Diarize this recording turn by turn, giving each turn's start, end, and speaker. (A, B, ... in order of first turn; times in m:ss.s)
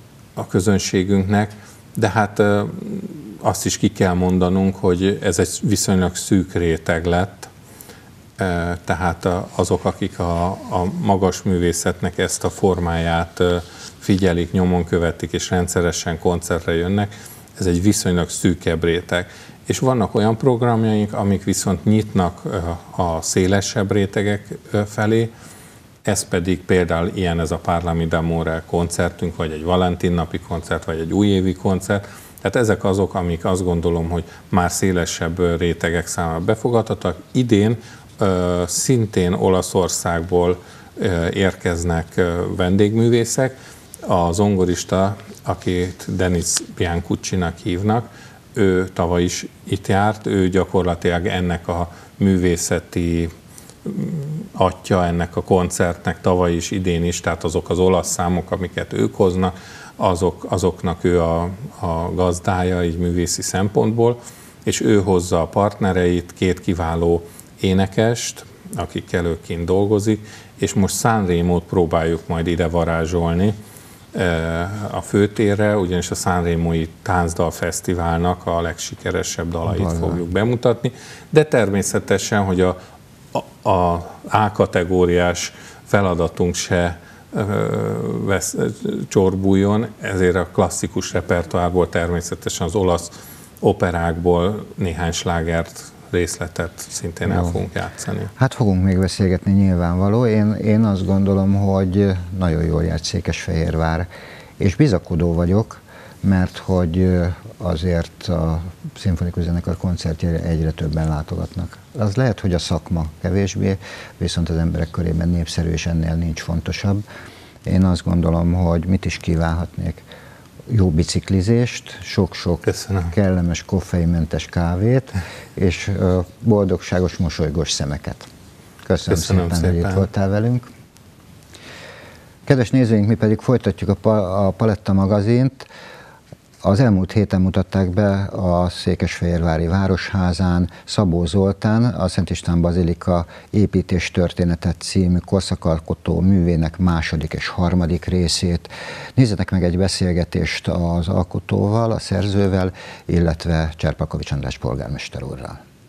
0:00.4-0:07.5 A
0:08.4-0:25.3 A
0:26.0-0:53.3 A
0:53.8-1:13.6 A
1:14.1-1:22.8 A
1:19.7-1:20.2 B
1:23.3-1:38.3 A
1:37.2-1:37.6 B
1:38.4-1:44.1 B
1:44.6-1:57.0 B
1:57.6-2:00.0 B
2:00.7-2:08.3 B
2:02.6-2:03.1 A
2:08.8-2:10.7 B
2:09.1-2:10.1 A
2:12.4-2:15.7 B
2:16.6-2:35.6 B